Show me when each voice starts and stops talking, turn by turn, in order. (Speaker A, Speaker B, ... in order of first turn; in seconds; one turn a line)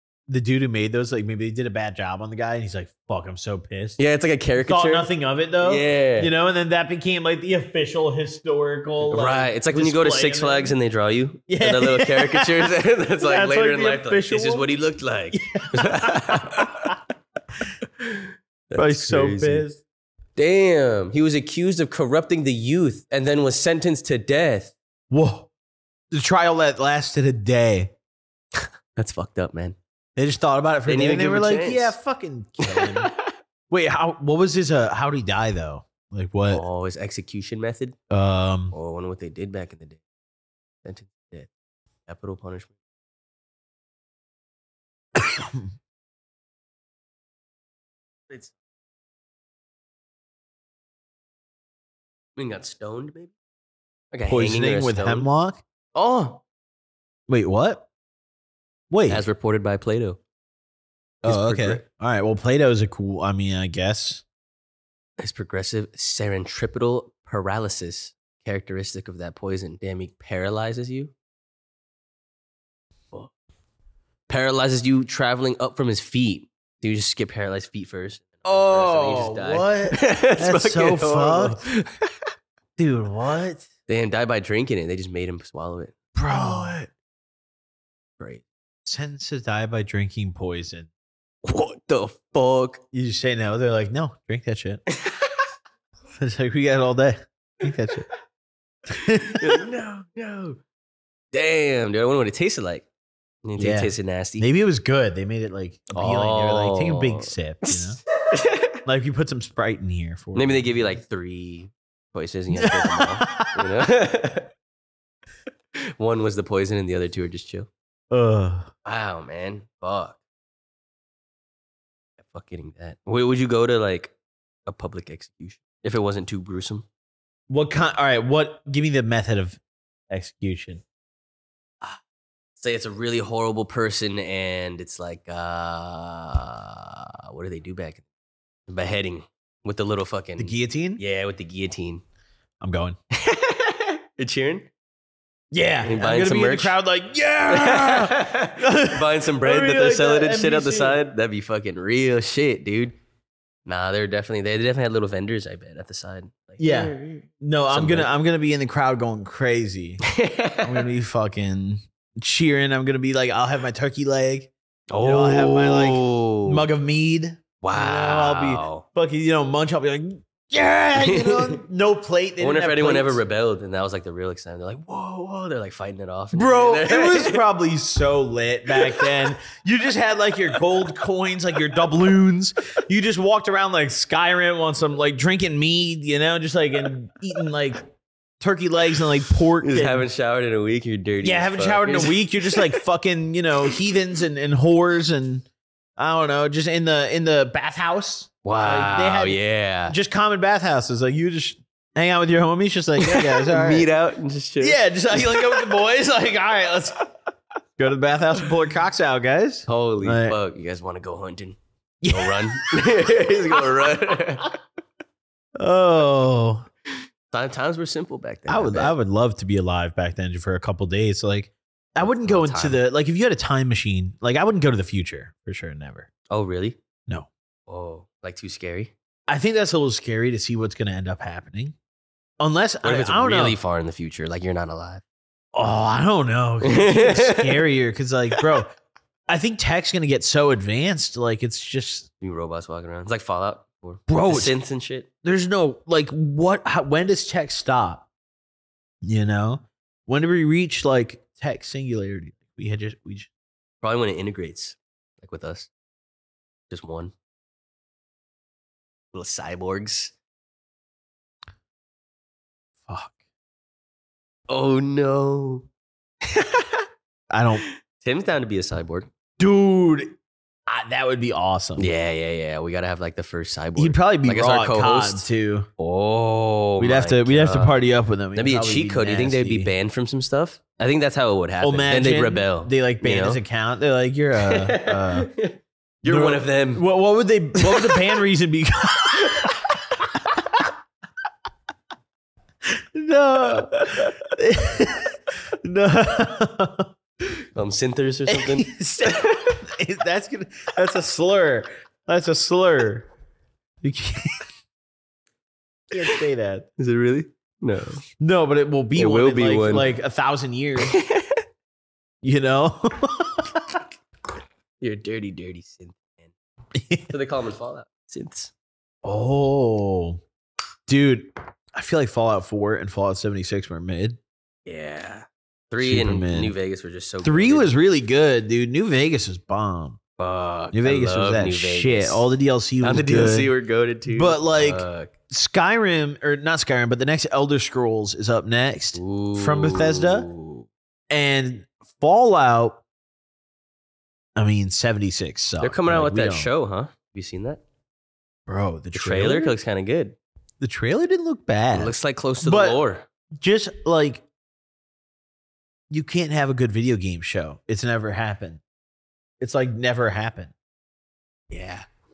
Speaker A: 0.3-4.0
Speaker B: 4.0-5.1
Speaker A: 4.6-10.8
Speaker B: 5.6-6.3
Speaker B: 9.1-17.0
Speaker A: 11.5-14.7
Speaker A: 15.3-16.9
Speaker B: 17.8-19.6
Speaker A: 18.8-19.8
Speaker B: 20.4-24.8
Speaker A: 25.1-25.5
Speaker A: 26.1-27.9
Speaker B: 28.6-29.8
Speaker A: 30.2-33.1
Speaker B: 30.9-31.9
Speaker B: 32.6-33.2
Speaker A: 33.7-36.6
Speaker B: 36.5-38.0
Speaker A: 38.1-38.8
Speaker B: 38.7-40.0
Speaker B: 40.8-41.5
Speaker B: 42.1-42.8
Speaker A: 45.1-45.7
Speaker B: 52.4-53.3
Speaker B: 54.1-55.3
Speaker A: 54.3-55.6
Speaker B: 56.0-56.4
Speaker A: 57.3-57.9
Speaker A: 58.9-59.2
Speaker B: 59.1-60.2
Speaker B: 61.2-61.8
Speaker A: 61.2-64.2
Speaker B: 65.2-71.1
Speaker B: 74.3-82.1
Speaker A: 78.5-81.6
Speaker A: 82.8-83.7
Speaker B: 83.9-86.8
Speaker A: 86.2-86.9
Speaker B: 88.2-88.5
Speaker A: 88.9-90.9
Speaker B: 91.4-92.8
Speaker A: 92.9-94.8
Speaker B: 95.0-95.3
Speaker A: 96.2-98.1
Speaker A: 98.9-99.6
Speaker B: 99.0-100.6
Speaker B: 101.3-102.9
Speaker B: 103.5-104.5
Speaker A: 103.6-108.0
Speaker B: 105.9-108.8
Speaker A: 108.8-111.0
Speaker B: 110.3-114.5
Speaker A: 112.5-113.8
Speaker B: 116.0-117.7
Speaker A: 118.1-118.7
Speaker B: 118.8-120.2
Speaker B: 122.2-124.1
Speaker B: 124.7-126.9
Speaker A: 127.5-129.6
Speaker A: 130.1-130.8
Speaker B: 132.6-138.0
Speaker B: 138.7-142.0
Speaker A: 140.4-141.0
Speaker A: 142.6-143.0
Speaker B: 143.2-144.7
Speaker A: 145.5-151.0
Speaker B: 145.8-146.8
Speaker B: 147.5-153.0
Speaker B: 153.7-158.1
Speaker A: 156.6-160.0
Speaker B: 160.1-160.9
Speaker A: 160.6-173.2
Speaker B: 164.9-166.7
Speaker B: 167.6-168.8
Speaker B: 171.0-171.6
Speaker B: 172.4-177.4
Speaker A: 176.3-187.8
Speaker B: 178.7-179.2
Speaker A: 188.4-190.1
Speaker B: 189.6-192.8
Speaker A: 191.2-195.5
Speaker A: 196.0-199.4
Speaker B: 198.4-200.0
Speaker A: 199.9-203.9
Speaker B: 203.0-205.7
Speaker A: 204.6-207.0
Speaker A: 207.8-210.4
Speaker B: 209.7-211.6
Speaker A: 212.0-212.7
Speaker B: 212.1-214.6
Speaker A: 215.6-216.7
Speaker B: 216.9-218.9
Speaker A: 218.5-226.1
Speaker B: 222.0-222.8
Speaker B: 226.3-226.8
Speaker B: 227.7-228.9
Speaker A: 229.3-231.8
Speaker A: 232.4-233.6
Speaker B: 232.8-235.0
Speaker A: 235.5-238.7
Speaker B: 236.6-237.7
Speaker A: 239.3-242.1
Speaker B: 242.2-245.1
Speaker A: 244.1-244.6
Speaker A: 245.2-248.1
Speaker A: 249.0-253.3
Speaker B: 253.8-255.7
Speaker B: 256.7-257.1
Speaker B: 259.1-260.1
Speaker A: 262.9-263.2
Speaker B: 264.5-265.7
Speaker B: 266.2-266.8
Speaker A: 267.3-267.6
Speaker B: 267.6-269.1
Speaker A: 269.4-270.1
Speaker A: 270.7-271.9
Speaker B: 271.8-275.3
Speaker A: 273.8-275.7
Speaker B: 275.8-277.8
Speaker A: 276.8-279.7
Speaker B: 278.4-283.4
Speaker A: 281.6-285.3
Speaker B: 284.4-286.9
Speaker A: 286.1-289.6
Speaker B: 287.6-288.0
Speaker B: 289.2-289.8
Speaker A: 290.1-290.7
Speaker A: 292.7-296.9
Speaker B: 297.6-299.6
Speaker A: 298.3-303.1
Speaker A: 303.8-304.5
Speaker A: 305.9-306.7
Speaker B: 306.8-308.0
Speaker A: 308.2-311.0
Speaker B: 309.0-309.9
Speaker B: 310.8-311.4
Speaker A: 312.2-313.8
Speaker B: 314.8-316.3
Speaker A: 316.8-317.1
Speaker B: 317.1-318.5
Speaker A: 319.0-320.2
Speaker A: 320.9-324.2
Speaker B: 324.7-327.7
Speaker A: 325.8-326.6
Speaker A: 327.2-330.0
Speaker B: 330.2-332.3
Speaker A: 330.7-333.5
Speaker B: 332.8-335.1
Speaker A: 334.1-340.3
Speaker B: 338.9-340.7
Speaker A: 341.1-342.8
Speaker A: 344.4-346.5
Speaker B: 345.6-347.6
Speaker A: 348.5-349.5
Speaker B: 348.9-350.2
Speaker A: 350.6-352.8
Speaker B: 351.7-353.1
Speaker A: 353.4-354.2
Speaker A: 355.9-358.6
Speaker A: 359.4-360.5
Speaker B: 361.5-361.9